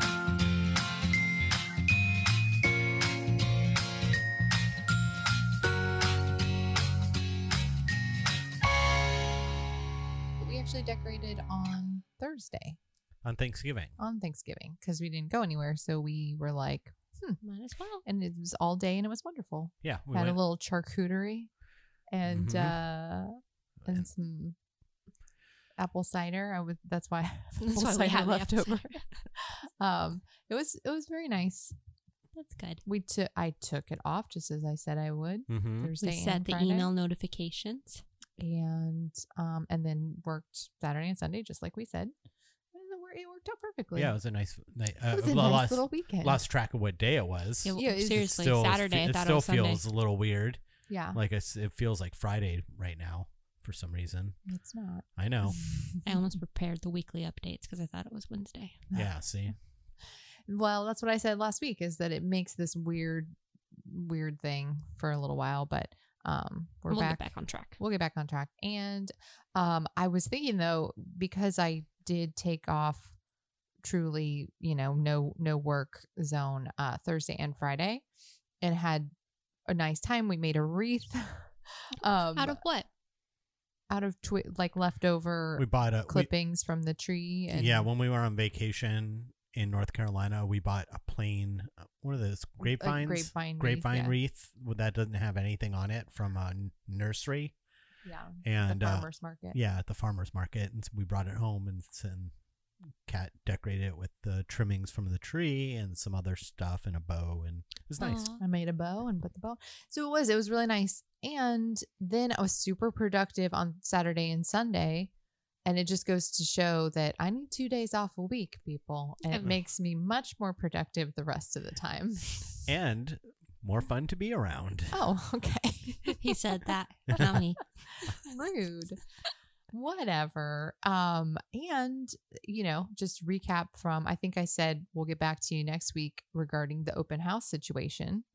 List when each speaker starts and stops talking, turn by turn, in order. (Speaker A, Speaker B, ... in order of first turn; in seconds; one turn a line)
Speaker A: 10.4-12.8
Speaker B: 13.2-14.0
Speaker A: 14.0-17.4
Speaker C: 17.4-18.0
Speaker A: 18.1-21.5
Speaker B: 19.8-20.4
Speaker A: 22.1-24.6
Speaker B: 22.3-22.8
Speaker A: 25.8-31.8
Speaker C: 27.6-29.2
Speaker C: 32.4-32.8
Speaker A: 32.9-36.9
Speaker B: 35.5-35.9
Speaker C: 36.0-38.0
Speaker A: 38.4-42.1
Speaker A: 42.7-44.1
Speaker B: 44.0-50.6
Speaker A: 45.1-46.4
Speaker C: 47.6-49.8
Speaker A: 47.8-48.2
Speaker A: 50.9-51.2
Speaker B: 51.1-54.4
Speaker A: 54.5-56.2
Speaker B: 55.2-55.6
Speaker C: 56.0-58.9
Speaker B: 58.9-59.5
Speaker A: 60.5-63.3
Speaker A: 63.9-73.1
Speaker C: 66.9-67.8
Speaker A: 73.8-78.0
Speaker A: 78.6-79.1
Speaker A: 79.7-82.6
Speaker C: 82.3-82.9
Speaker A: 83.9-87.9
Speaker B: 85.6-86.3
Speaker B: 87.5-97.5
Speaker A: 92.6-94.2
Speaker A: 98.0-99.6
Speaker B: 98.4-102.3
Speaker B: 103.0-108.3
Speaker C: 108.0-108.4
Speaker A: 108.4-115.1
Speaker A: 115.7-122.7
Speaker B: 122.7-125.0
Speaker A: 124.9-126.3
Speaker C: 126.1-127.8
Speaker A: 127.9-129.0
Speaker A: 129.7-138.2